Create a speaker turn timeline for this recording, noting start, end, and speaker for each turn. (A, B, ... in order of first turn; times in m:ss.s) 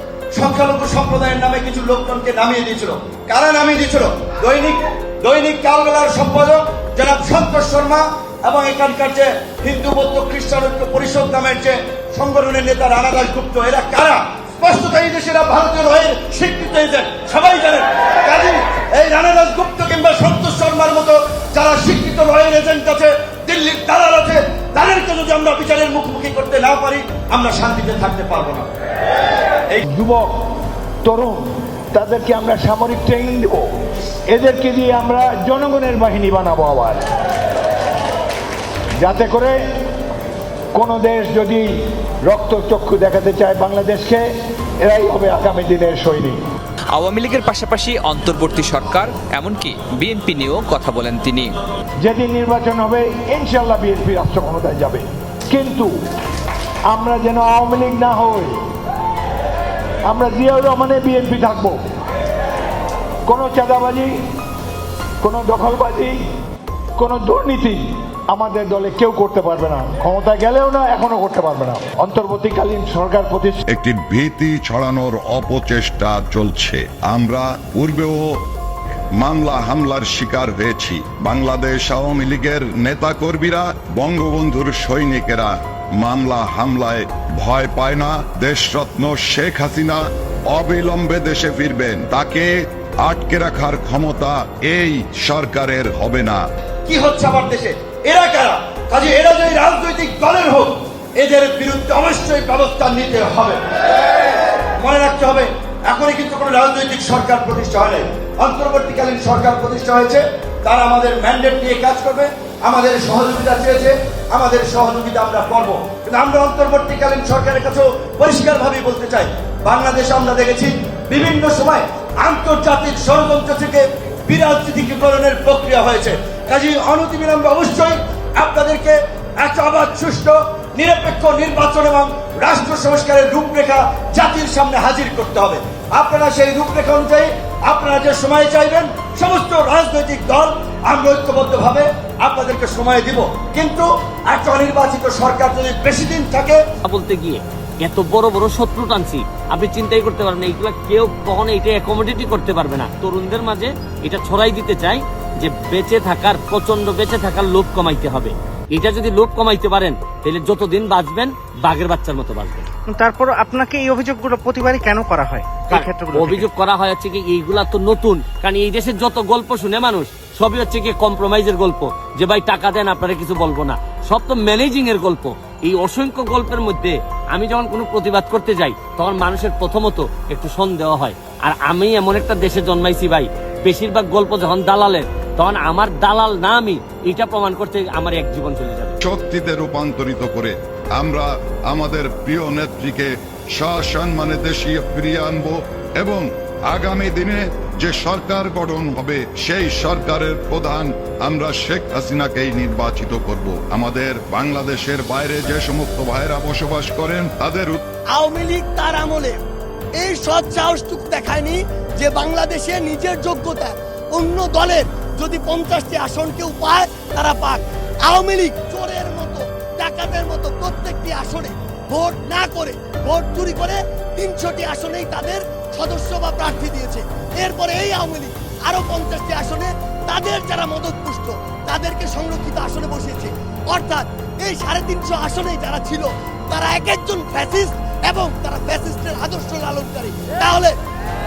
0:00.3-0:28.7 A
0:29.8-0:30.3 B
0:31.0-0:33.6 B
0:34.3-0:37.0 B
0:39.0-0:39.6 B
0:40.7-0:41.7 B
0:42.3-0:44.3 B
0:44.8-0:46.4 B
0:46.9-0:51.6 C
0:52.0-0:55.9 B
0:56.9-0:58.5 B
1:00.1-1:01.8 B
1:03.3-1:04.1 B
1:05.2-1:06.2 B
1:07.0-1:13.6 B
1:13.7-1:18.2 D
1:19.2-1:32.5 D
1:33.0-1:36.4 D
1:36.8-1:43.6 A
1:44.8-2:26.6 A
2:26.8-2:42.7 E
2:42.9-2:46.5 F
2:45.7-3:09.0 E
3:09.0-3:27.8 D
3:28.1-3:29.4 G
3:30.0-4:00.7 G